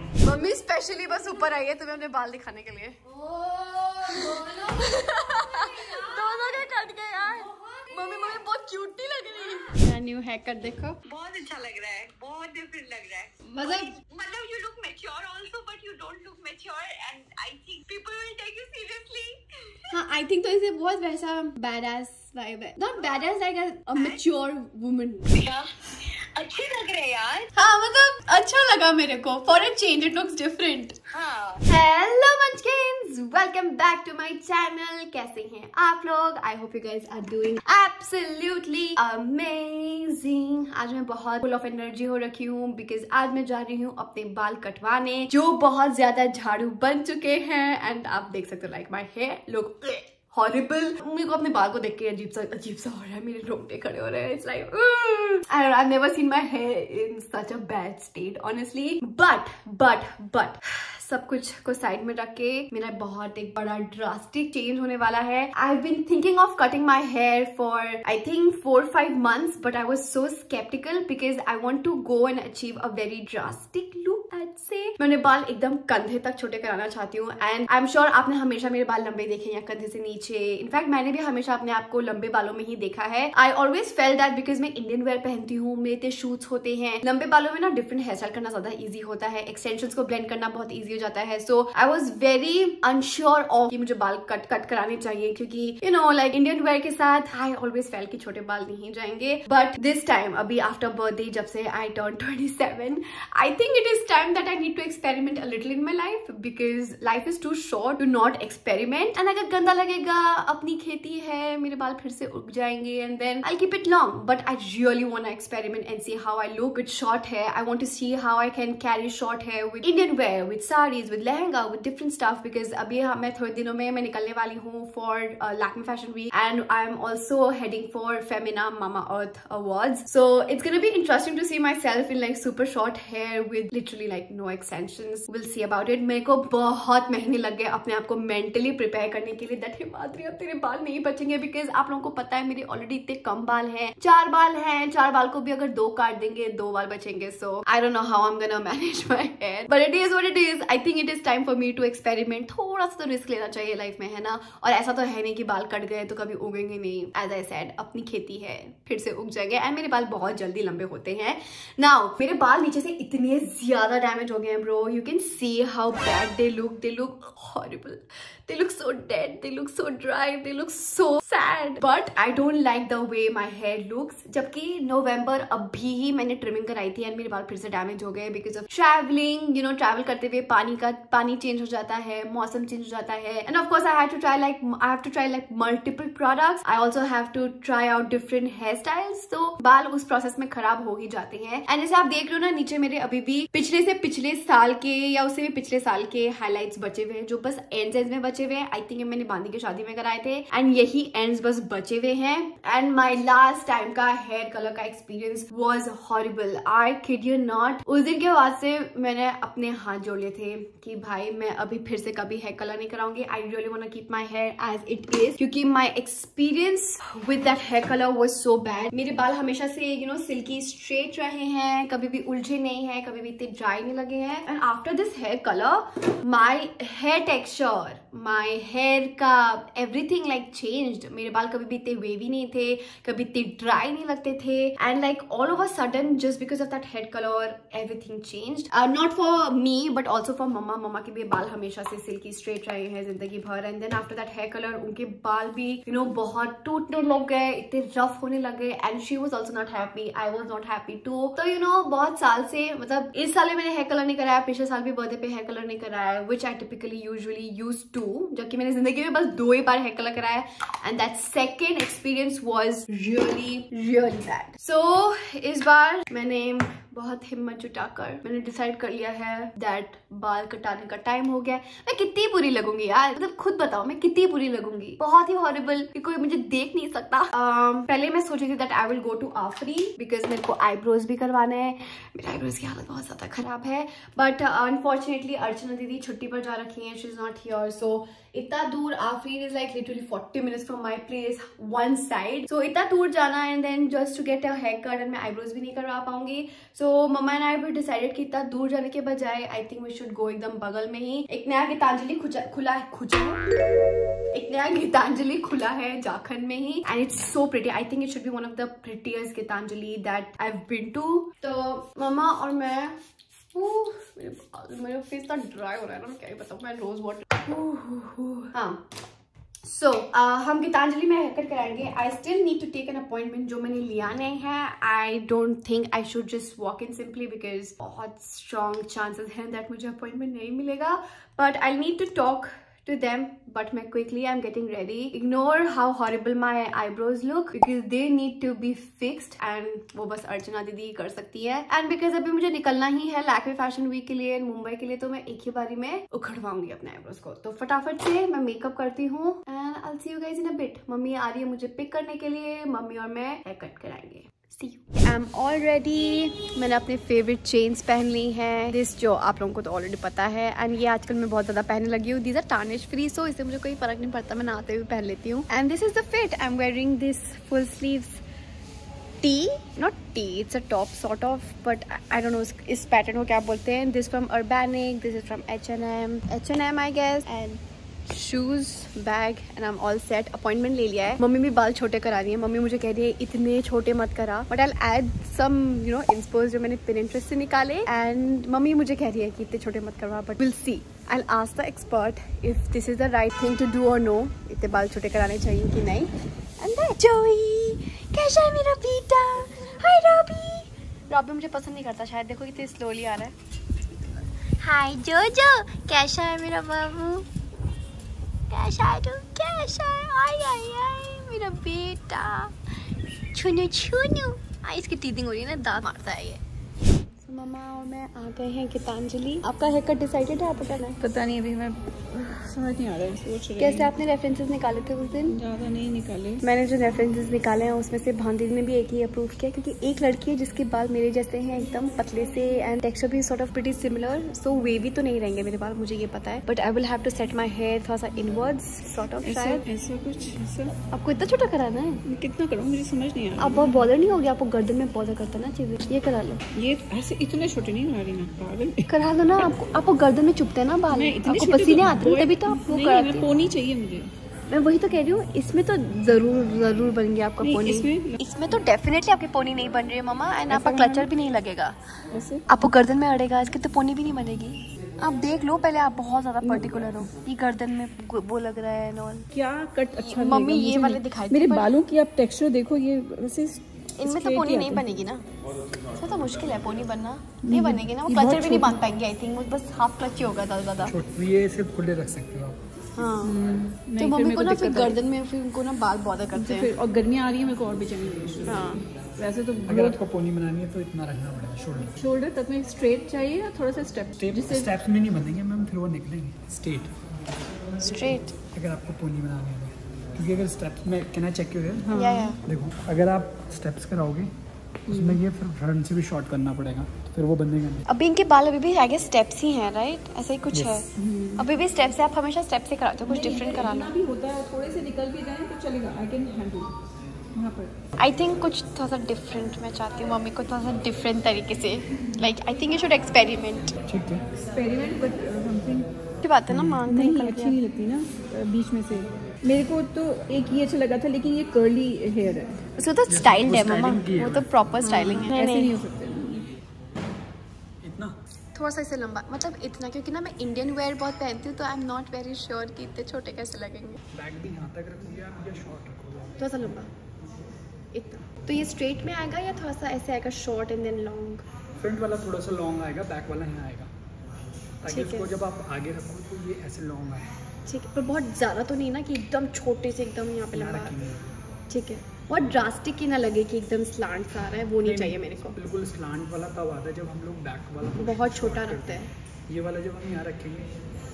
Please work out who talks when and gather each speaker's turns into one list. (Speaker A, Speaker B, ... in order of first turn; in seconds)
Speaker A: 0.2-11.0, 13.5-13.9, 19.9-25.3, 27.6-31.0, 31.7-303.5, 304.3-313.0, 313.5-318.8, 319.6-368.2, 369.2-403.4, 404.6-407.3, 408.5-412.5, 413.3-416.4, 417.2-421.0, 423.6-425.4, 426.4-439.6, 440.9-442.0, 443.4-446.4, 448.9-453.4, 454.5-461.8, 462.5-469.3, 469.9-471.8, 474.0-475.3, 475.9-481.0, 482.9-483.3, 484.0-486.7, 488.4-488.8, 497.8-498.4, 501.9-502.4, 507.9-514.0, 518.0-523.8, 526.2-527.6, 532.8-535.8, 538.5-544.0, 546.4-546.9, 547.9-551.4, 554.9-555.3, 557.7-560.9, 561.7-565.6, 568.0-569.1
Speaker B: 11.1-19.4, 23.1-23.3, 25.3-27.5, 31.1-31.6
Speaker C: 421.0-423.9, 425.3-426.4, 439.2-440.6, 442.1-443.4, 446.5-448.8, 451.0-454.1, 457.4-457.9, 469.3-474.8, 477.5-478.7, 483.3-484.7, 486.4-488.4, 489.2-490.0, 492.0-494.5, 511.0-511.4, 513.1-516.7, 517.3-517.7, 524.5-525.9, 526.9-532.5, 535.0-536.4
Speaker D: 480.9-482.6, 489.7-492.0, 494.2-496.9, 498.5-504.3, 504.9-507.9, 510.5-510.9, 523.9-524.3, 526.5-526.8, 533.1-534.5, 537.8-538.2, 544.1-546.4, 551.8-553.9, 554.8-557.3, 560.5-561.4, 564.8-570.7